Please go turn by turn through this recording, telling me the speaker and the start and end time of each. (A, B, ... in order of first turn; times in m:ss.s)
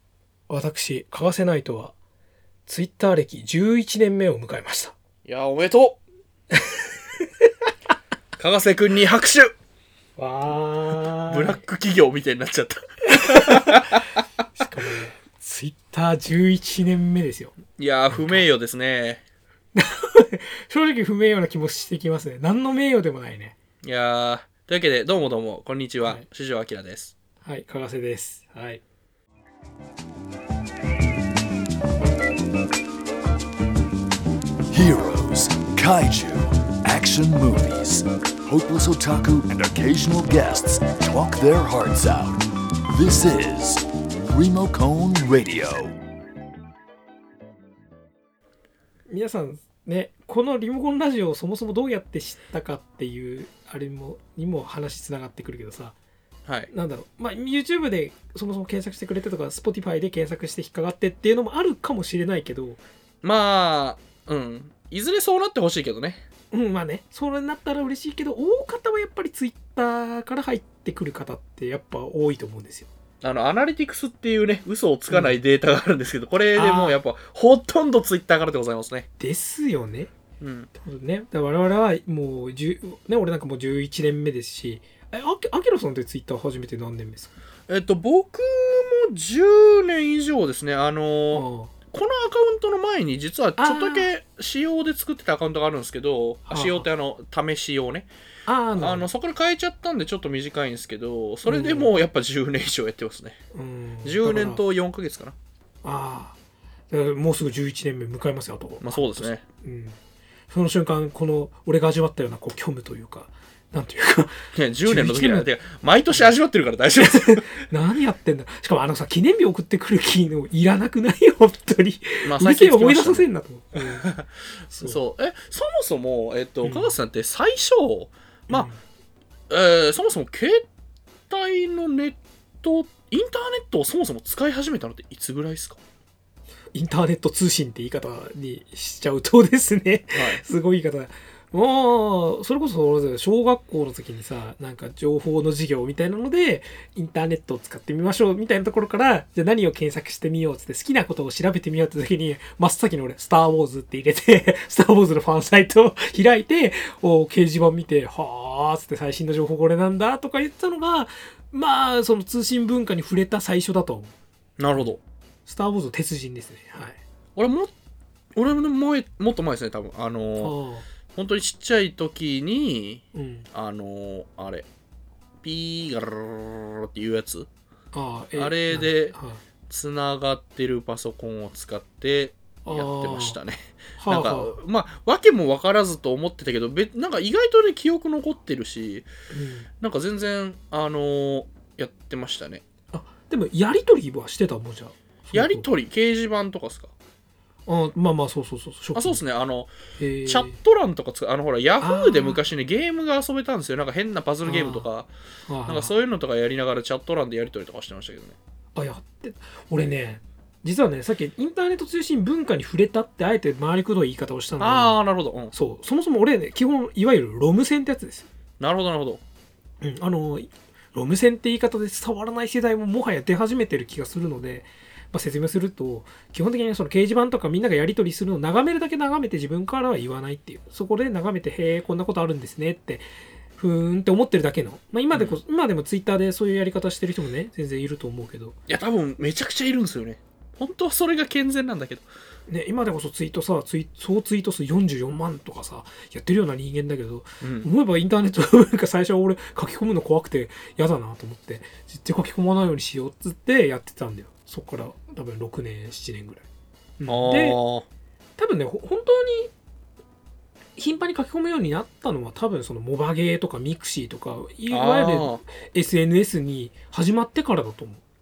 0:00.5-0:02.0 A
0:02.7-0:04.9 A
0:05.3-0:06.0 B
0:06.5-0:06.8 A
0:08.4-0:09.5 B
0:10.2-0:11.6 A
0:11.3-0:14.2 B
0:13.1-0:14.0 A
0:14.6-0:17.5 A
0:17.8-0:19.2 B
0:18.1-0:18.4 A
0:19.8-0:23.6 A
0:23.8-0:27.1 B
0:27.4-0:28.8 A
0:34.7-0:46.0 C
0:49.1-0:56.0 A
0:56.5-0:56.7 B
0:56.7-1:02.8 A
1:03.2-1:06.2 B
1:06.5-1:12.9 A
1:13.2-1:19.1 B
1:15.1-1:15.4 A
1:16.6-1:17.0 A
1:19.2-1:20.1 A
1:20.4-1:20.7 B
1:20.8-1:27.3 A
1:27.7-1:38.1 B
1:31.3-1:31.7 A
1:33.6-1:34.1 A
1:36.5-1:36.9 A
1:38.5-1:39.1 A
1:38.8-1:43.4 B
1:41.4-1:41.9 A
1:43.5-1:44.6 A
1:44.0-1:45.4 B
1:45.8-1:46.4 A
1:46.9-1:50.0 A
1:48.8-1:49.4 B
1:50.5-1:55.5 A
1:54.5-1:57.5 B
1:57.0-2:04.1 A
2:02.3-2:03.2 B
2:03.8-2:08.7 B
2:04.7-2:05.0 A
2:06.6-2:07.0 A
2:08.5-2:08.8 A
2:09.5-2:10.7 B
2:11.3-2:15.8 B
2:16.7-2:44.1 A
2:20.1-2:20.4 B
2:44.6-2:45.0 B
2:45.5-2:47.0 A
2:47.4-2:47.7 B
2:48.4-2:50.6 B
2:50.4-2:50.9 A
2:51.1-2:54.7 B
2:53.1-2:53.5 A
2:55.4-2:57.5 B
2:57.9-2:59.4 A
2:58.4-2:59.2 B
2:59.7-3:09.1 B
3:02.6-3:03.4 A
3:04.0-3:04.6 A
3:09.3-3:09.7 A
3:09.8-3:12.6 B
3:12.9-3:15.7 A
3:15.3-3:16.9 B
3:17.7-3:19.2 A
3:19.0-3:19.7 B
3:20.0-3:20.6 A
3:20.2-3:25.1 B
3:21.8-3:22.4 A
3:24.4-3:24.9 A
3:25.5-3:25.9 A
3:25.7-3:28.4 B
3:28.8-3:35.0 A
3:34.6-3:35.5 B
3:35.5-3:38.3 A
3:38.6-3:39.2 B
3:39.8-3:53.0 A
3:53.6-3:58.6 A
3:55.1-3:55.4 B
3:58.7-4:02.1 B
4:02.5-4:16.5 A
4:07.4-4:07.7 B
4:17.0-4:17.6 A
4:17.1-4:17.9 B
4:18.4-4:19.5 A
4:20.8-4:28.0 A
4:24.7-4:25.4 B